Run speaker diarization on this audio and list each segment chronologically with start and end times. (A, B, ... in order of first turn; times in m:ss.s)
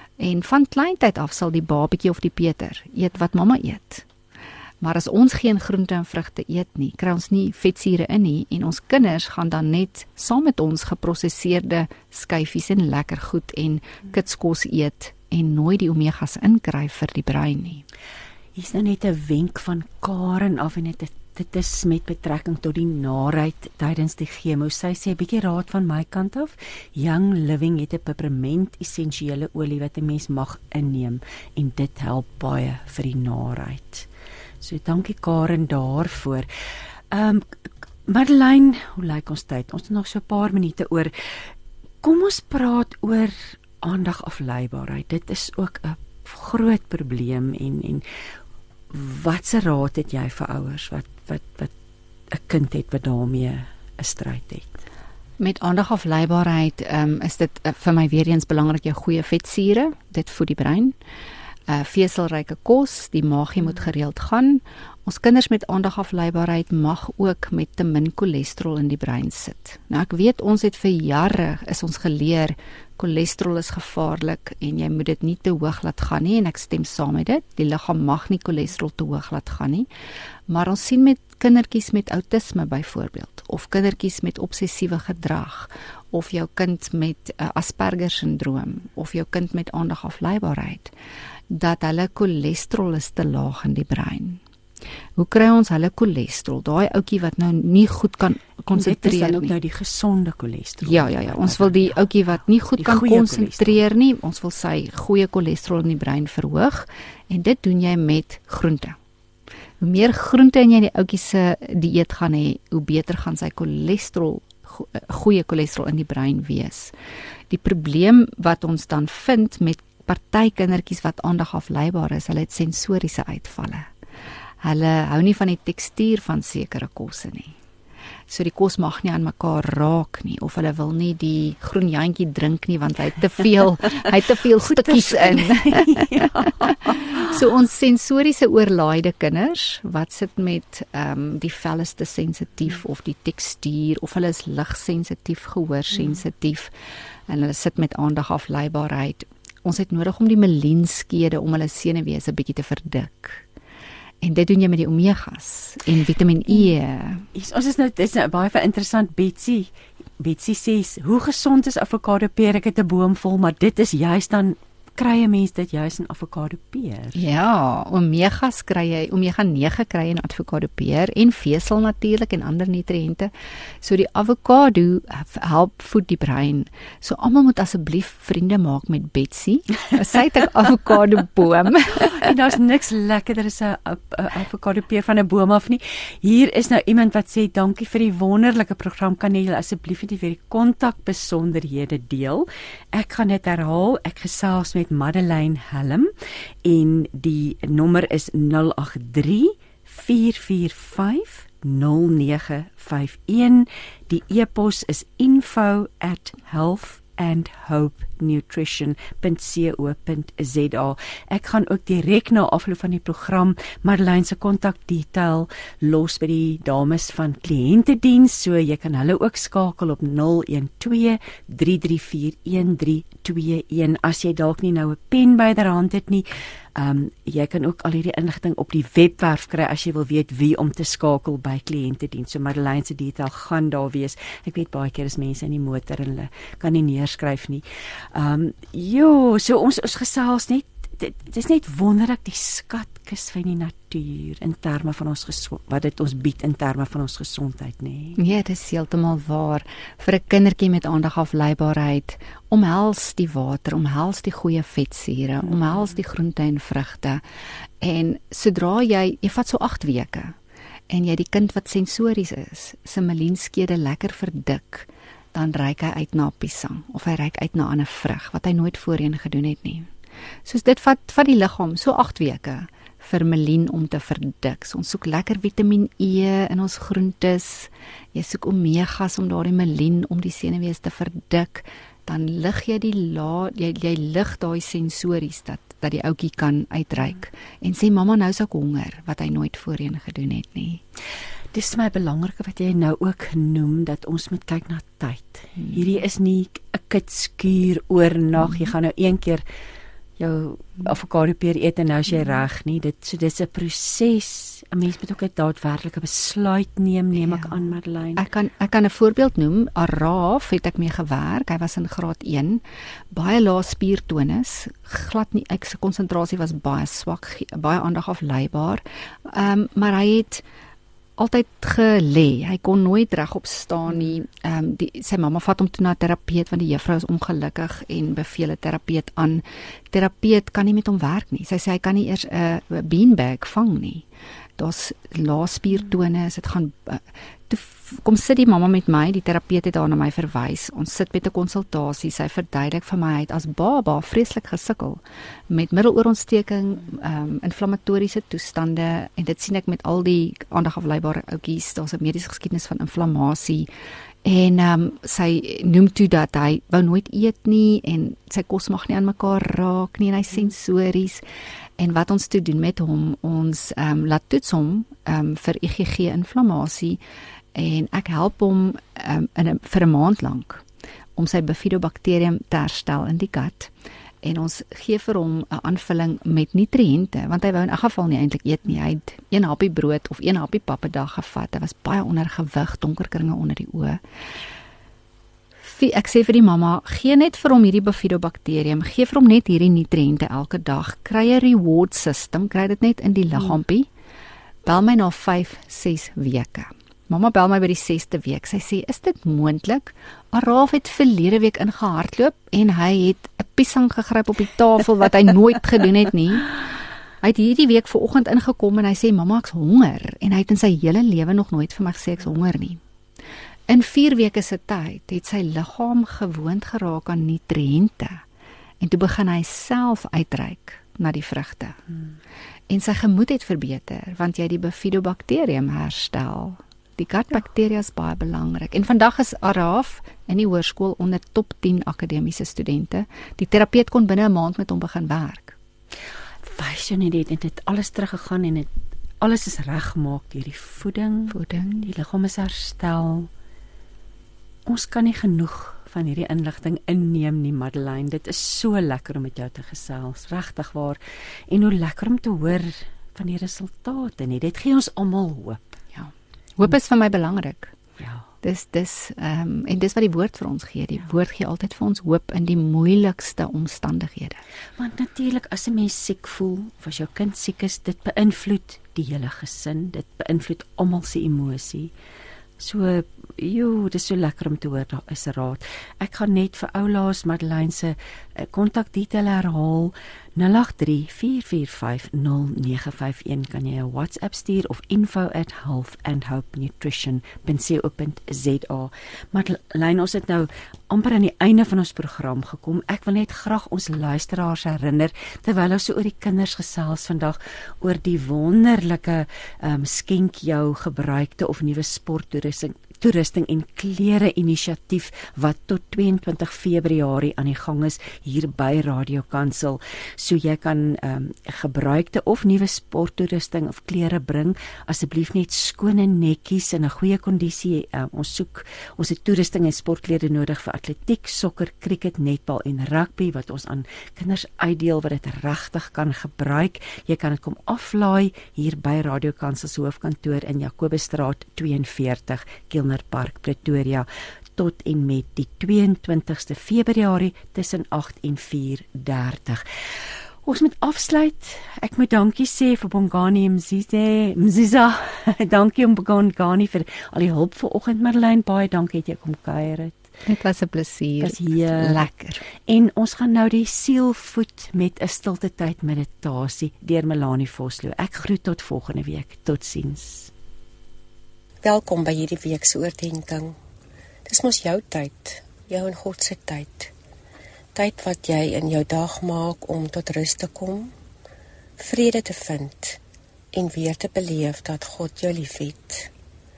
0:00.2-0:04.1 A
0:04.8-0:17.8 A
0:18.6-0:34.1 B
0:34.6-0:36.5 B
0:37.1-0:41.5 B
0:42.0-0:48.0 B
0:48.9-0:51.7 B
0:52.3-0:54.8 B
0:55.4-1:01.0 A
1:01.7-1:19.9 A
1:20.5-1:30.9 A
1:31.5-1:34.4 A
1:35.2-1:39.5 A
1:38.7-1:42.0 B
1:40.8-1:49.0 A
1:42.8-1:43.8 B
1:49.8-1:56.9 A
1:57.5-2:03.9 A
2:04.6-2:07.6 A
2:08.3-2:26.7 A
2:14.6-2:17.4 B
2:27.3-2:33.4 A
2:34.2-2:37.3 A
2:37.3-2:47.2 B
2:47.2-2:53.3 A
2:53.8-3:02.2 A
3:02.1-3:16.1 B
3:16.6-4:08.2 B
4:08.2-4:17.2 A
4:17.8-4:20.4 A
4:20.9-4:29.9 A
4:30.5-4:50.8 A
4:51.5-4:59.4 B
5:00.2-5:08.3 B
5:07.2-5:07.5 A
5:08.2-5:20.4 A
5:21.2-5:34.1 A
5:34.6-5:53.7 A
5:54.2-6:01.2 A
6:01.8-6:07.0 A
6:07.6-6:10.6 A
6:11.2-6:13.7 A
6:14.2-6:24.0 A
6:25.6-6:33.9 A
6:34.6-6:46.6 A
6:47.2-6:52.8 A
6:53.7-6:58.2 A
6:58.8-7:01.8 A
7:02.7-7:15.6 A
7:16.4-7:18.7 B
7:19.2-7:23.3 B
7:21.3-7:21.9 A
7:24.7-7:35.7 B
7:36.0-7:37.7 A
7:38.0-7:38.2 B
7:38.4-7:44.4 A
7:44.8-7:51.9 B
7:52.6-8:59.6 B
9:00.4-9:10.0 B
9:10.2-9:12.4 A
9:11.2-9:20.3 B
9:21.6-9:23.6 C
9:24.3-9:26.9 C
9:27.8-9:30.9 C
9:31.8-9:33.0 C
9:33.5-9:36.1 C